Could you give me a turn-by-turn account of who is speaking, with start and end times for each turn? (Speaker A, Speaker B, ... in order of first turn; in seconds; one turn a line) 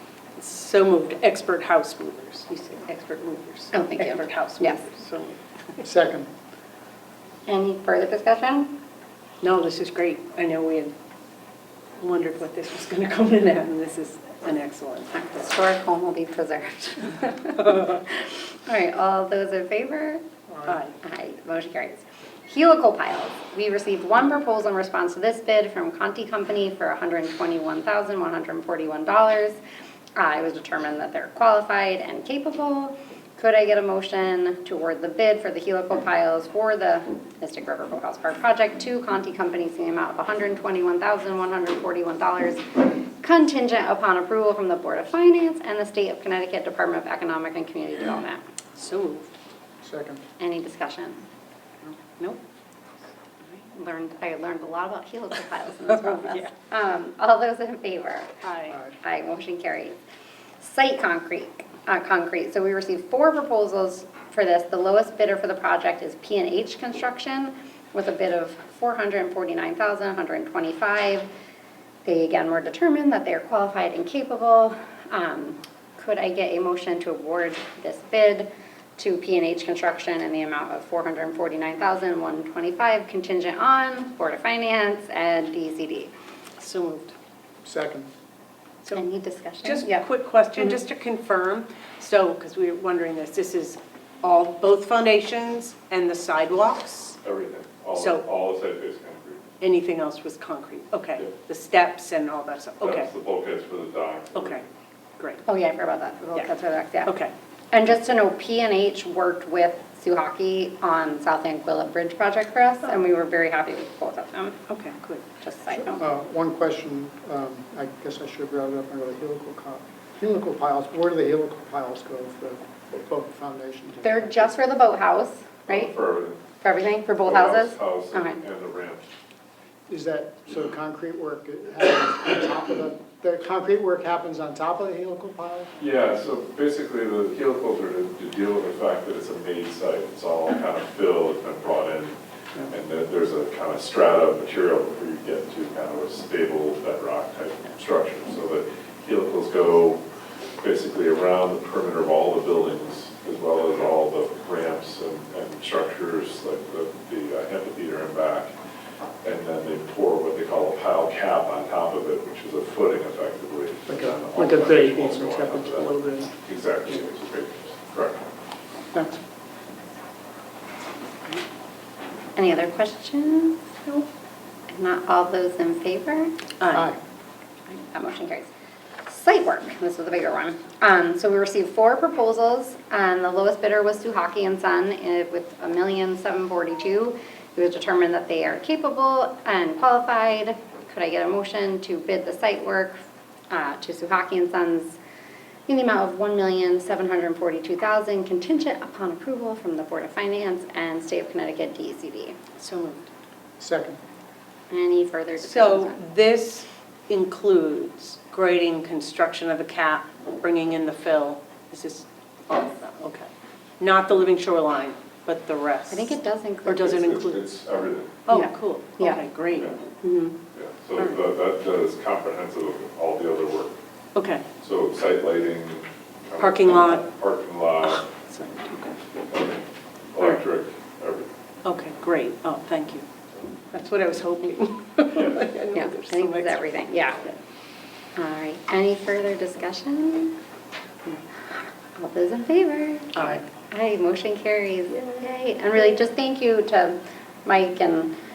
Speaker A: 0.4-5.8
Speaker B: 3.7-4.8
Speaker C: 5.8-6.3
Speaker B: 7.5-8.7
Speaker A: 9.4-10.9
Speaker A: 12.0-15.2
Speaker B: 15.1-20.2
Speaker C: 20.5-20.8
Speaker A: 20.7-20.9
Speaker B: 21.0-29.6
Speaker B: 30.2-48.4
Speaker A: 48.8-49.3
Speaker C: 49.8-50.2
Speaker B: 50.4-51.2
Speaker B: 53.5-58.3
Speaker A: 56.1-56.5
Speaker A: 58.4-58.8
Speaker B: 59.0-60.0
Speaker B: 60.6-71.3
Speaker B: 72.0-86.1
Speaker A: 86.6-87.1
Speaker C: 87.6-88.1
Speaker B: 88.9-90.0
Speaker A: 89.6-97.2
Speaker D: 97.2-99.4
Speaker A: 98.0-98.2
Speaker A: 99.6-103.1
Speaker D: 102.8-104.6
Speaker A: 104.3-104.6
Speaker B: 105.5-107.1
Speaker A: 107.0-107.3
Speaker B: 107.7-114.6
Speaker A: 114.7-115.2
Speaker B: 115.4-116.0
Speaker C: 115.7-124.5
Speaker B: 124.0-125.9
Speaker D: 125.7-126.4
Speaker B: 126.6-128.4
Speaker D: 127.2-129.1
Speaker C: 129.9-135.7
Speaker D: 135.8-142.2
Speaker D: 142.7-150.0
Speaker D: 150.6-158.5
Speaker D: 159.2-168.3
Speaker C: 163.9-166.3
Speaker B: 172.4-174.1
Speaker B: 174.7-176.3
Speaker A: 176.6-176.9
Speaker C: 176.7-177.0
Speaker B: 177.7-178.5
Speaker B: 179.1-193.0
Speaker B: 193.5-195.0
Speaker B: 195.7-202.4
Speaker A: 202.6-203.1
Speaker C: 203.6-204.0
Speaker B: 204.7-206.0
Speaker A: 205.4-213.3
Speaker A: 213.8-217.5
Speaker B: 215.9-217.1
Speaker D: 216.9-218.2
Speaker A: 218.3-219.8
Speaker B: 218.3-219.2
Speaker B: 220.0-220.3
Speaker D: 220.5-223.7
Speaker A: 224.2-224.4
Speaker D: 224.6-228.1
Speaker A: 226.4-227.1
Speaker A: 227.8-229.0
Speaker D: 229.3-229.6
Speaker D: 230.1-231.3
Speaker A: 231.7-233.1
Speaker A: 233.7-236.6
Speaker D: 235.1-235.4
Speaker B: 235.7-237.3
Speaker B: 238.2-240.3
Speaker B: 241.3-248.1